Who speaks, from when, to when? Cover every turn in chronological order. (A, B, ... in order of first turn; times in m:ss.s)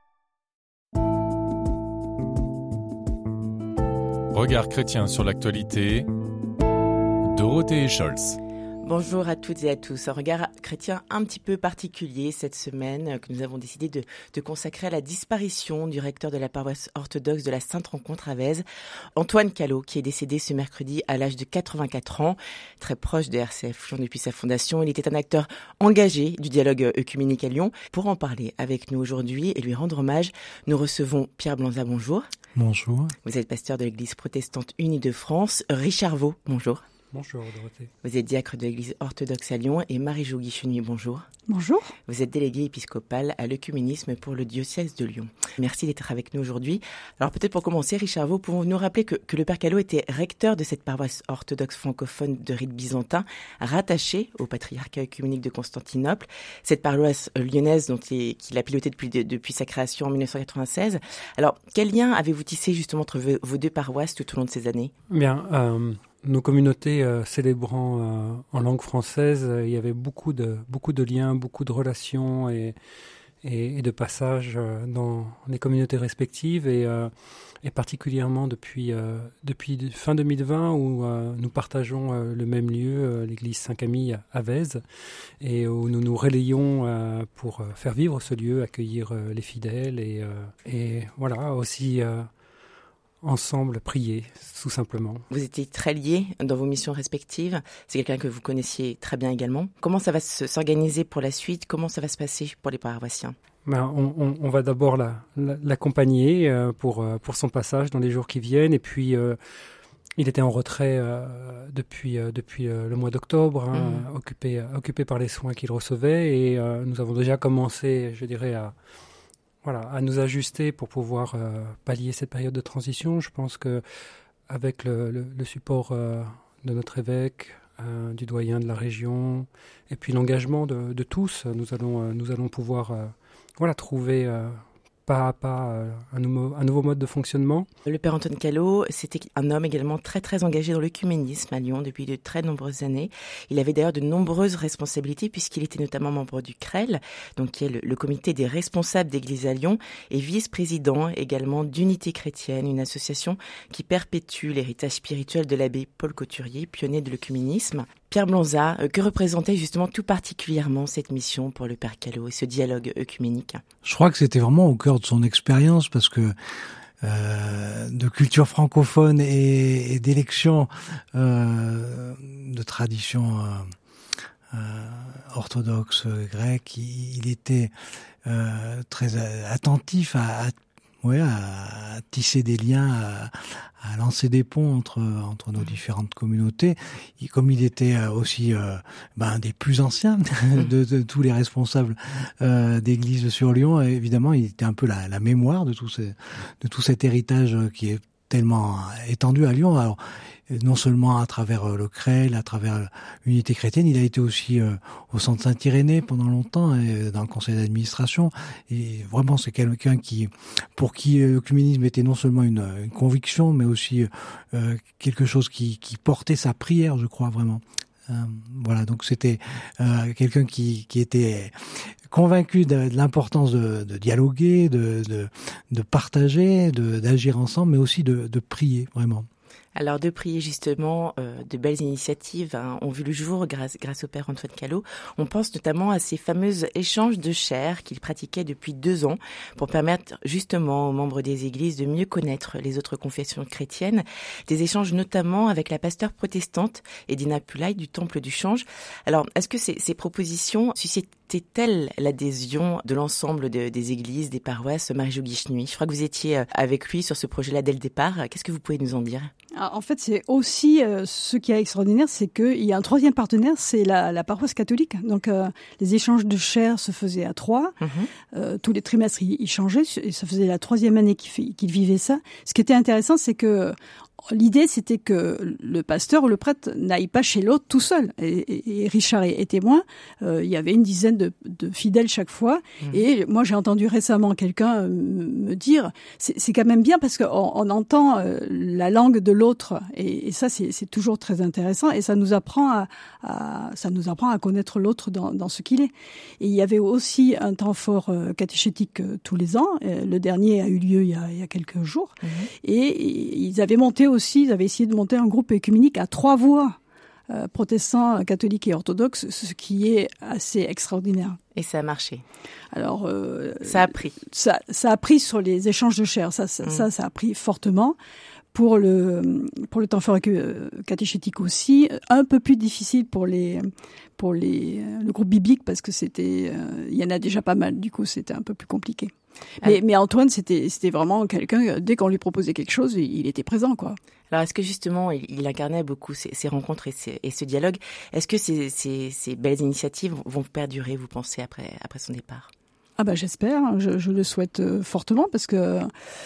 0:04.3-0:06.1 A
0:07.3-0:08.4 A
0:08.8-0:18.6 B
0:19.2-0:32.2 B
0:32.6-0:33.1 C
0:33.2-0:36.8 B
0:37.1-0:37.9 D
0:38.0-0:41.3 B
0:41.5-0:41.9 E
0:42.1-1:04.9 B
1:05.1-1:12.8 D
1:13.4-1:17.1 D
1:17.6-1:24.8 D
1:25.4-1:32.3 D
1:33.2-1:35.2 D
1:35.3-1:43.4 B
1:43.7-1:49.4 D
1:50.2-1:58.8 D
1:53.7-1:54.1 B
1:59.6-2:03.8 D
2:04.5-2:17.7 D
2:17.9-2:43.6 B
2:43.8-2:46.4 C
2:47.0-2:53.7 C
2:54.5-2:57.7 C
2:58.2-3:41.5 C
3:42.1-3:49.3 C
3:49.8-4:19.3 B
4:19.5-4:27.8 E
4:27.8-4:28.1 B
4:28.3-4:33.8 E
4:34.3-5:06.8 E
5:02.2-5:02.5 B
5:07.3-5:11.4 E
5:11.6-5:12.2 B
5:12.7-5:18.0 E
5:13.6-5:14.2 B
5:18.5-5:34.0 E
5:34.3-5:42.5 B
5:43.0-5:45.9 E